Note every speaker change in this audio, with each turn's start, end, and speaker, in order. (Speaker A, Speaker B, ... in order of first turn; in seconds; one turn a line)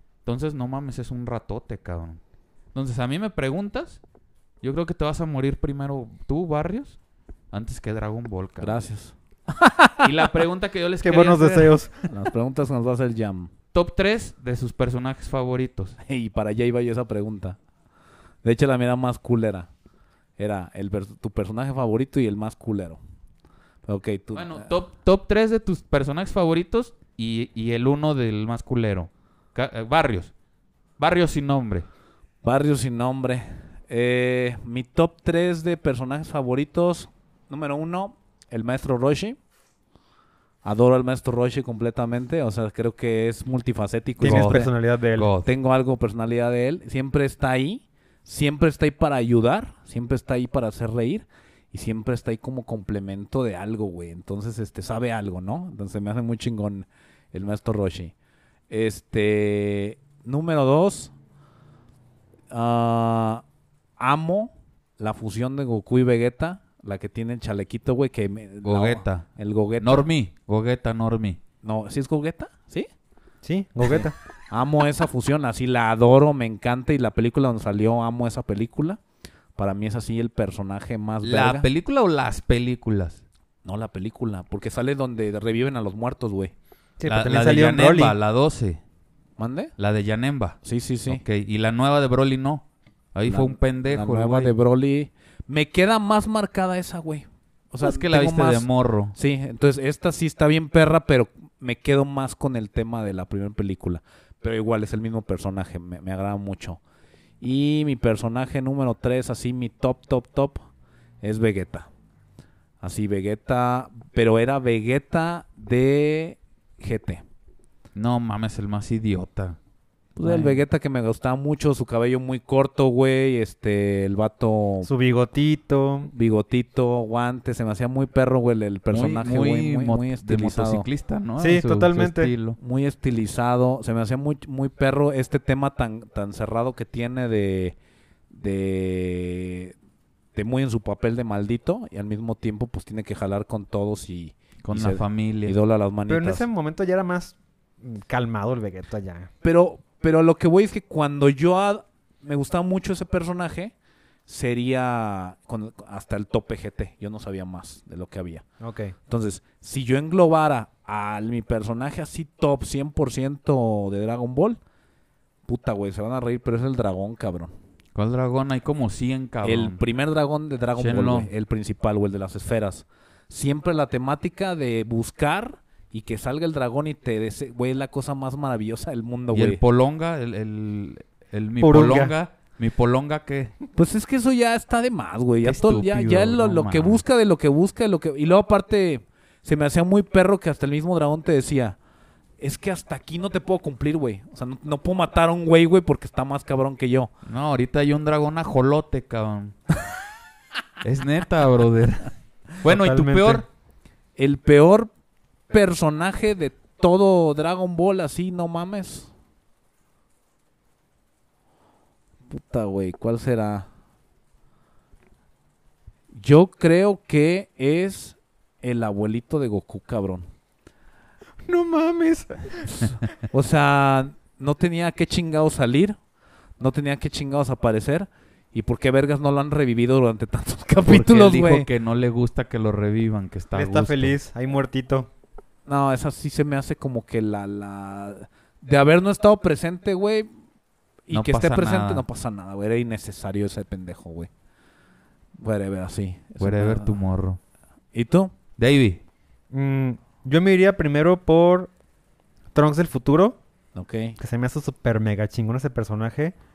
Speaker A: 0.2-2.2
Speaker A: 2.7-4.0
Speaker A: 4.6-7.0
Speaker A: 7.5-8.8
Speaker B: 8.6-10.0
Speaker A: 10.0-11.8
Speaker C: 11.0-12.1
Speaker B: 12.1-13.5
Speaker A: 13.7-16.0
Speaker B: 16.0-17.6
Speaker B: 18.4-19.7
Speaker B: 20.4-23.0
Speaker B: 23.8-24.6
Speaker A: 24.3-30.3
Speaker A: 31.0-31.9
Speaker B: 32.4-39.4
Speaker B: 40.6-44.7
Speaker C: 44.2-45.3
Speaker A: 44.2-45.5
Speaker B: 45.4-58.1
Speaker B: 58.7-61.1
Speaker B: 62.5-63.4
Speaker B: 64.0-70.1
Speaker A: 68.6-69.2
Speaker A: 69.8-71.4
Speaker B: 71.6-72.9
Speaker C: 73.4-74.1
Speaker B: 73.8-79.0
Speaker B: 79.5-81.7
Speaker A: 81.2-83.2
Speaker B: 83.6-86.5
Speaker C: 87.0-88.1
Speaker A: 87.0-88.8
Speaker B: 89.4-89.7
Speaker A: 89.8-94.5
Speaker B: 90.6-91.2
Speaker B: 93.2-106.8
Speaker A: 97.8-99.1
Speaker B: 107.4-110.6
Speaker B: 111.2-111.9
Speaker B: 112.8-117.2
Speaker A: 117.9-119.6
Speaker B: 120.2-124.9
Speaker A: 120.2-120.6
Speaker C: 124.8-126.1
Speaker B: 126.1-130.8
Speaker A: 128.9-132.6
Speaker C: 131.4-132.3
Speaker B: 132.6-137.8
Speaker B: 138.3-139.7
Speaker B: 140.3-146.4
Speaker A: 144.6-145.5
Speaker C: 146.1-149.3
Speaker B: 149.4-153.7
Speaker B: 154.3-158.4
Speaker C: 158.6-158.9
Speaker B: 159.1-164.6
Speaker B: 165.4-167.5
Speaker A: 167.9-169.8
Speaker B: 169.4-179.6
Speaker A: 170.8-171.3
Speaker A: 179.3-183.5
Speaker C: 181.6-182.1
Speaker B: 183.8-191.8
Speaker A: 185.4-187.0
Speaker B: 192.4-197.1
Speaker A: 197.2-199.6
Speaker A: 200.8-203.4
Speaker C: 202.6-203.4
Speaker B: 204.2-204.9
Speaker B: 205.5-209.1
Speaker B: 212.3-213.7
Speaker B: 216.1-220.3
Speaker C: 221.4-222.8
Speaker B: 222.8-226.0
Speaker B: 226.6-231.7
Speaker A: 230.8-234.1
Speaker C: 233.5-235.1
Speaker B: 235.7-240.3
Speaker B: 241.1-244.3
Speaker A: 241.1-242.0
Speaker B: 245.4-246.9
Speaker A: 246.4-247.4
Speaker B: 247.9-248.3
Speaker A: 248.6-249.0
Speaker C: 249.5-251.7
Speaker C: 252.5-253.4
Speaker B: 253.7-254.2
Speaker C: 254.2-256.3